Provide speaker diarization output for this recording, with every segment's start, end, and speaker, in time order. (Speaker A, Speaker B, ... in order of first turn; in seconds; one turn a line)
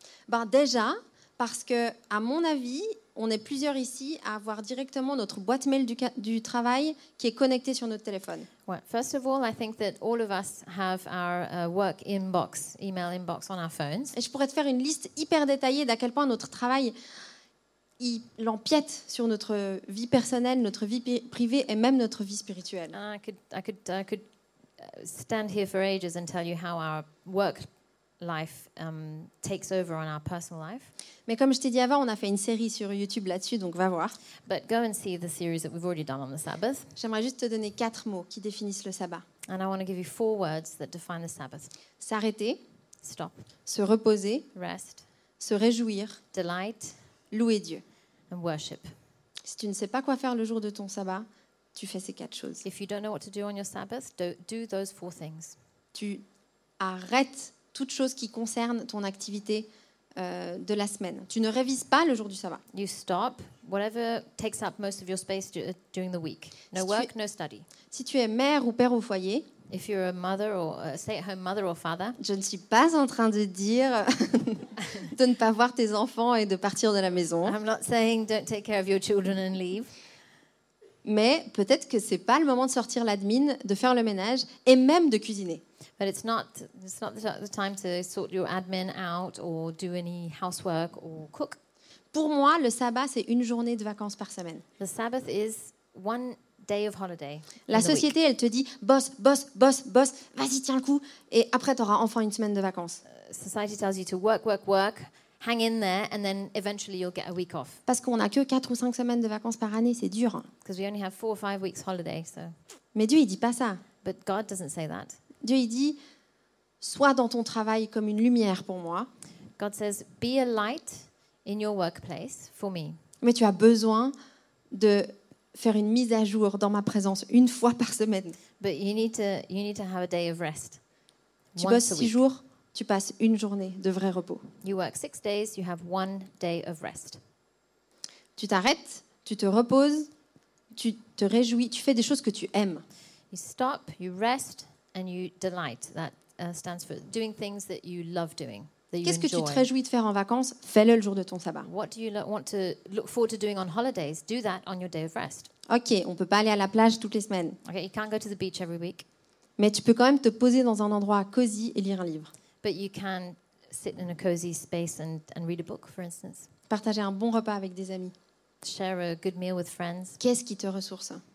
Speaker A: 0.3-8.5
Speaker B: 8.7-14.2
Speaker A: 14.1-16.9
Speaker A: 18.0-22.9
Speaker B: 22.9-24.2
Speaker B: 24.8-27.7
Speaker B: 28.2-30.9
Speaker A: 31.3-34.1
Speaker B: 34.5-36.9
Speaker A: 37.0-39.2
Speaker B: 39.5-41.7
Speaker A: 42.0-42.6
Speaker B: 43.0-43.5
Speaker A: 43.7-44.5
Speaker B: 44.5-45.0
Speaker A: 45.4-46.2
Speaker B: 46.3-47.0
Speaker A: 47.3-47.8
Speaker B: 48.3-48.9
Speaker A: 49.4-52.6
Speaker B: 52.6-55.5
Speaker A: 55.9-56.2
Speaker A: 56.8-62.6
Speaker B: 62.7-67.7
Speaker A: 66.7-67.1
Speaker A: 67.9-69.5
Speaker B: 69.7-72.2
Speaker A: 72.2-77.5
Speaker B: 77.4-79.9
Speaker A: 81.0-85.6
Speaker B: 86.0-91.6
Speaker A: 92.1-94.6
Speaker B: 94.8-98.1
Speaker A: 97.7-103.0
Speaker B: 103.1-107.8
Speaker A: 107.9-110.5
Speaker B: 110.6-112.5
Speaker A: 112.9-113.8
Speaker B: 114.0-115.2
Speaker A: 115.4-116.0
Speaker A: 116.8-119.1
Speaker B: 119.6-123.0
Speaker A: 123.2-124.1
Speaker A: 124.7-128.4
Speaker B: 128.6-130.8
Speaker B: 131.5-132.2
Speaker A: 131.6-134.4
Speaker B: 134.6-137.2
Speaker A: 138.4-140.1
Speaker A: 140.7-142.8
Speaker B: 143.3-149.7
Speaker A: 149.0-151.7
Speaker B: 151.6-155.5
Speaker A: 155.7-157.6
Speaker B: 157.6-159.1
Speaker A: 159.6-162.3
Speaker B: 162.6-166.5
Speaker A: 166.7-168.1
Speaker B: 168.6-170.2
Speaker A: 170.2-171.2